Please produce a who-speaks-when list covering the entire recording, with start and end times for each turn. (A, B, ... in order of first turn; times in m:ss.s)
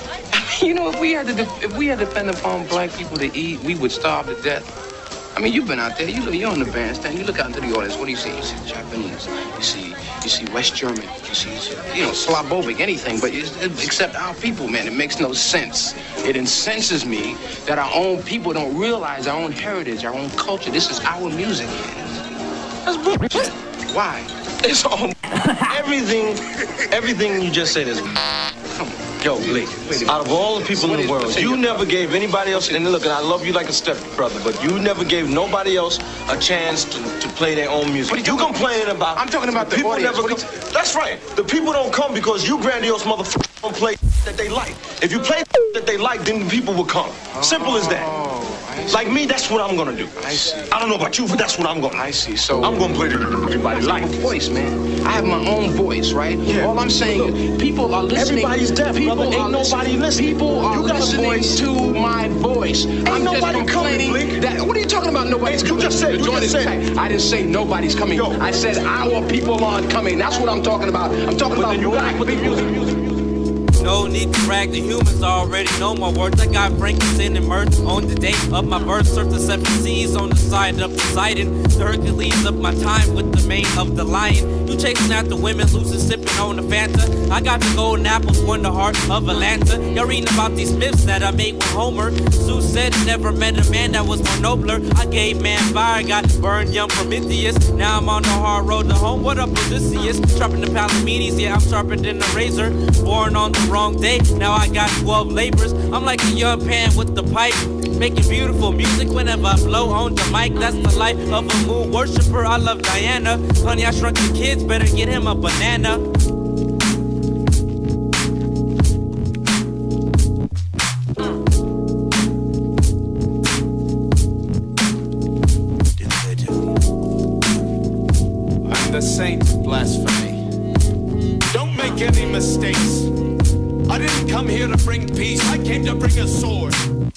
0:00.3-0:04.7 A
0:05.4-0:22.3 A
0:22.9-0:25.4 A
0:25.5-0:28.2 B
0:28.7-0:31.9 A
0:29.2-0:48.1 B
0:32.5-0:32.8 A
0:38.1-0:40.4 A
0:47.3-0:49.2 A
0:48.9-0:54.3 B
0:50.2-0:50.7 A
0:51.9-0:52.9 A
0:53.6-1:12.7 A
0:56.4-0:57.4 B
0:58.1-1:01.6 B
1:03.0-1:04.4 B
1:05.4-1:06.8 B
1:08.1-1:08.5 B
1:11.5-1:13.1 B
1:13.8-1:56.0 C
2:06.0-2:06.7 D
2:08.6-2:10.4 D
2:11.5-2:13.1 D
2:13.9-2:16.8 D